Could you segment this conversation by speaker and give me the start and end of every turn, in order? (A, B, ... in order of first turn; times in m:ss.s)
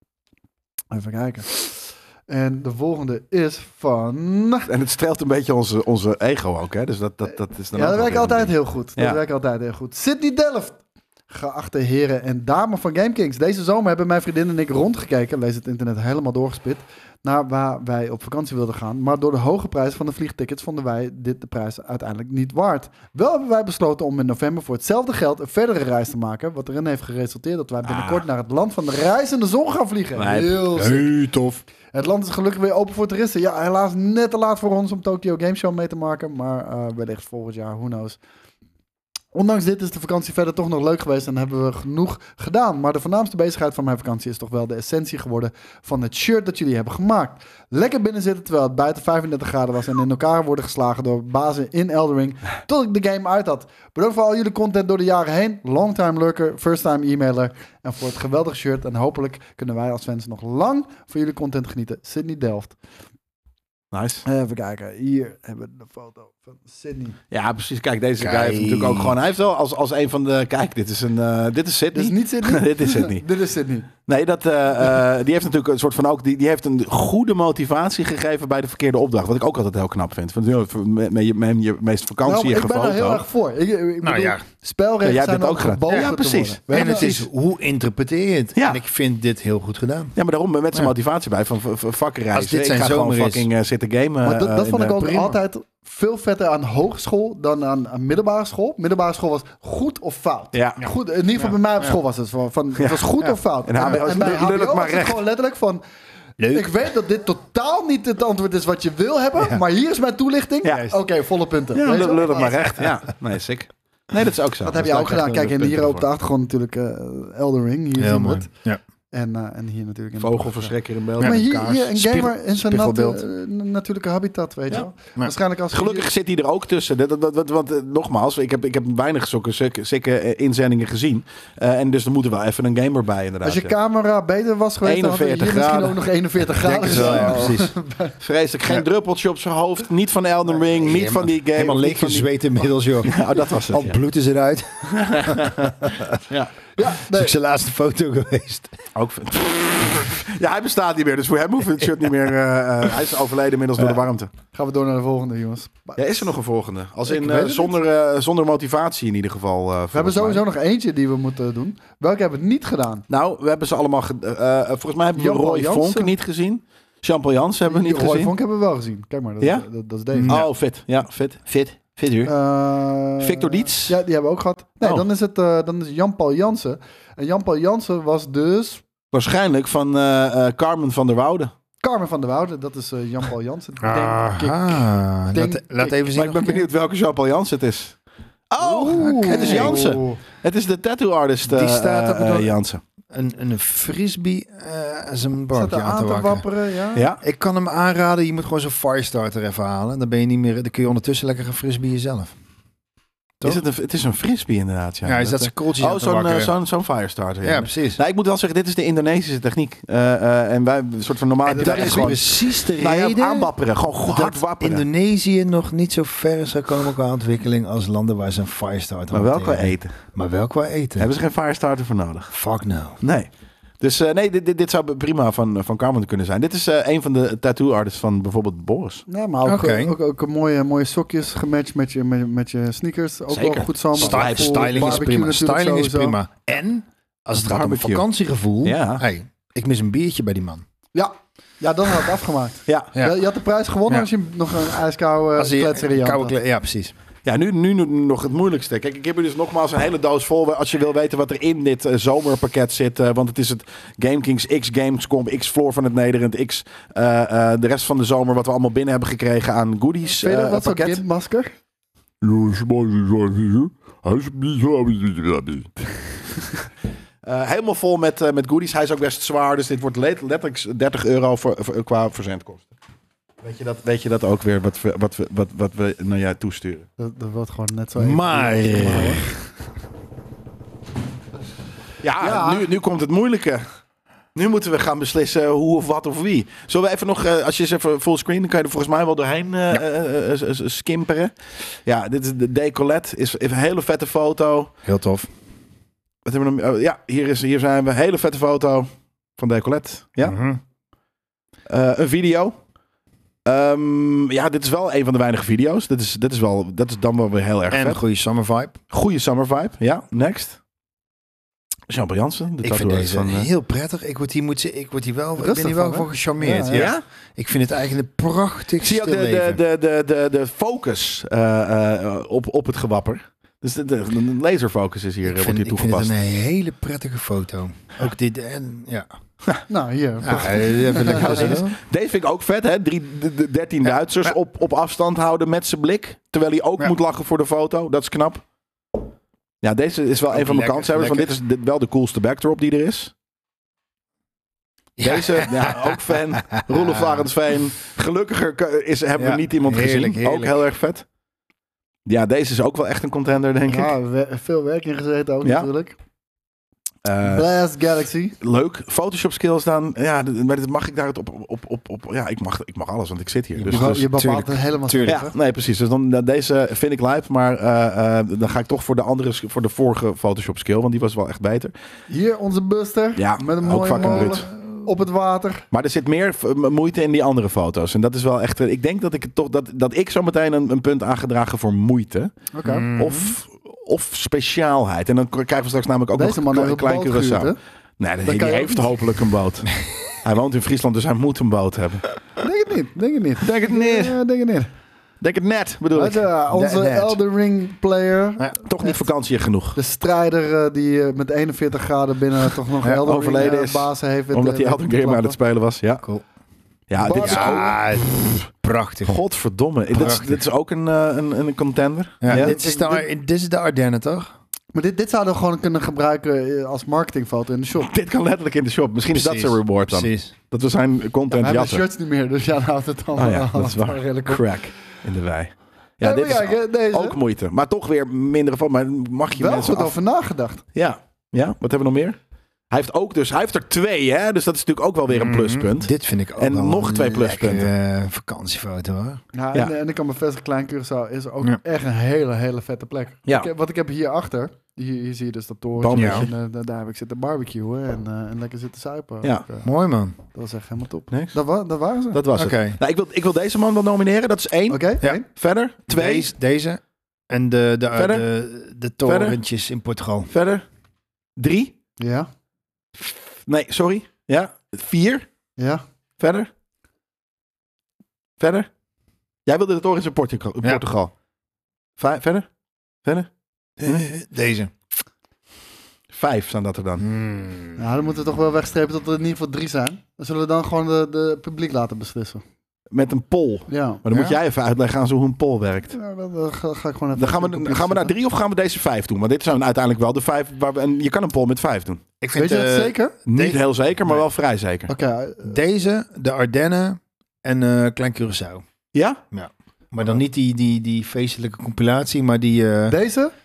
0:00.9-0:04.7 A
0:04.7-0:09.2 B
0:07.7-0:31.1 A
0:27.8-0:28.2 B
0:30.2-0:30.6 B
0:30.8-0:31.6 C
0:31.9-0:38.2 A
0:39.3-1:02.8 A
1:03.9-1:04.2 B
1:04.2-1:07.2 A
1:07.3-1:13.2 B
1:08.2-1:09.1 C
1:11.9-1:13.9 A
1:14.0-1:23.2 B
1:22.2-1:27.2 A
1:24.0-1:24.4 C
1:25.0-1:27.2 B
1:26.7-1:30.1 C
1:30.2-1:35.3 B
1:32.3-1:33.5 C
1:34.2-1:45.8 A
1:40.5-1:40.8 B
1:41.4-1:42.0 C
1:42.8-1:43.0 B
1:43.6-1:45.2 B
1:46.4-1:46.7 C
1:46.5-1:52.8 A
1:50.7-1:51.0 C
1:51.7-1:56.0 B
1:54.6-1:58.5 A
1:58.0-1:58.8 C
1:59.1-2:06.1 A
2:00.2-2:02.0 B
2:02.0-2:03.2 C
2:05.7-2:13.7 B
2:13.4-2:18.2 A
2:14.8-2:16.0 B
2:16.6-2:17.7 C
2:16.9-2:17.5 B
2:18.2-2:22.3 B
2:20.8-2:26.1 C
2:23.0-2:24.0 B
2:24.9-2:26.5 B
2:26.8-2:27.3 A
2:27.1-2:28.8 C
2:29.0-2:34.3 B
2:34.5-2:36.3 A
2:36.0-2:40.4 B
2:37.0-2:37.8 A
2:39.9-2:43.0 A
2:43.1-2:48.3 B
2:45.2-2:46.1 A
2:47.7-2:50.4 A
2:50.1-2:50.5 C
2:50.3-2:52.3 B
2:52.2-2:58.8 A
2:53.2-2:54.0 B
2:59.1-3:01.5 B
3:01.8-3:06.0 A
3:03.8-3:06.6 C
3:06.1-3:08.0 B
3:08.5-3:12.8 B
3:08.6-3:10.2 A
3:08.9-3:10.0 C
3:11.4-3:12.5 C
3:13.1-3:16.4 C
3:15.5-3:17.1 A
3:16.9-3:17.2 B
3:17.2-3:22.3 C
3:23.4-3:34.8 B
3:25.0-3:26.5 C
3:27.4-3:28.0 C
3:31.4-3:41.1 C
3:39.1-3:39.9 B
3:41.0-3:42.3 B
3:42.3-3:43.0 C
3:43.0-3:43.3 B
3:43.8-3:49.0 B
3:49.1-3:56.2 A
3:49.4-3:49.9 C
3:53.3-3:55.1 B
3:54.0-4:00.6 C
3:57.4-3:58.0 B
3:58.6-3:59.0 B
4:00.9-4:06.3 A
4:05.4-4:06.9 C
4:07.2-4:21.0 B
4:20.2-4:21.5 A
4:22.2-4:25.7 B
4:27.2-4:32.7 B
4:33.4-4:36.9 B
4:37.0-4:39.2 A
4:38.0-4:39.3 C
4:42.0-4:43.6 B
4:42.2-4:42.7 A
4:44.3-4:51.3 B
4:51.8-4:54.7 B
4:54.8-4:55.3 C
4:56.2-5:00.4 B
5:00.2-5:00.6 C
5:01.7-5:02.6 B
5:03.4-5:08.0 B
5:07.7-5:08.7 C
5:08.9-5:10.6 B
5:11.9-5:13.5 B
5:12.6-5:19.6 C
5:15.4-5:16.9 A
5:16.7-5:17.0 B
5:18.8-5:26.1 B
5:25.2-5:29.1 C
5:29.7-5:31.6 A
5:30.2-5:31.7 C
5:30.9-5:38.4 B
5:39.6-5:43.1 B
5:40.3-5:41.3 C
5:45.0-5:47.2 C
5:45.0-5:51.0 B
5:49.2-5:50.5 C
5:52.0-5:53.9 B
5:53.7-5:56.0 A
5:57.0-5:57.4 B
5:57.2-5:58.4 A
5:58.4-6:04.1 B
6:03.5-6:05.2 C
6:03.7-6:05.3 A
6:05.0-6:11.7 B
6:12.1-6:15.6 A
6:13.2-6:14.4 B
6:14.0-6:14.4 C
6:15.7-6:32.1 B
6:22.5-6:22.9 A
6:22.6-6:23.3 C
6:26.1-6:27.6 A
6:28.2-6:28.9 A
6:32.4-6:34.7 A
6:33.4-6:34.2 B
6:35.2-6:36.3 B
6:35.9-6:39.1 A
6:36.5-6:37.2 C
6:38.6-6:39.8 B
6:39.7-6:45.4 A
6:43.1-6:46.0 B
6:46.9-6:48.4 B
6:47.0-6:47.7 A
6:47.1-6:49.2 C
6:49.0-6:52.5 B
6:49.9-6:50.4 C
6:52.2-6:54.3 C
6:52.3-6:53.0 A
6:54.7-6:57.9 A
6:57.8-7:01.8 B
6:59.1-7:00.3 C
7:01.3-7:04.4 A
7:03.2-7:09.9 B
7:06.0-7:07.2 A
7:09.4-7:10.6 A
7:10.7-7:12.2 B
7:12.7-7:17.7 B
7:15.1-7:19.2 C
7:19.3-7:29.7 A
7:25.8-7:26.3 B
7:25.9-7:26.3 C
7:29.6-7:30.2 C
7:30.3-7:32.2 A
7:32.1-7:36.3 B
7:32.3-7:32.8 C
7:34.7-7:35.2 A
7:35.9-7:40.3 C
7:37.9-7:38.2 B
7:39.0-7:39.4 B
7:40.3-7:40.6 B
7:41.4-7:41.7 B
7:42.0-7:42.3 A
7:43.0-7:45.2 B
7:45.6-7:45.8 A
7:46.2-7:46.5 B
7:48.4-7:48.7 B
7:49.4-7:51.1 B
7:52.0-7:52.5 B
7:53.8-7:54.7 C
7:56.1-7:57.0 B
7:57.0-7:57.8 C
7:57.8-8:02.4 A
8:02.9-8:05.9 B
8:03.7-8:04.3 A
8:05.9-8:08.1 A
8:07.2-8:12.0 B
8:12.2-8:14.2 C
8:12.3-8:13.2 A
8:13.2-8:14.9 B
8:14.9-8:15.6 A
8:15.4-8:18.6 C
8:18.9-8:19.2 B
8:19.3-8:23.0 C
8:22.9-8:23.3 A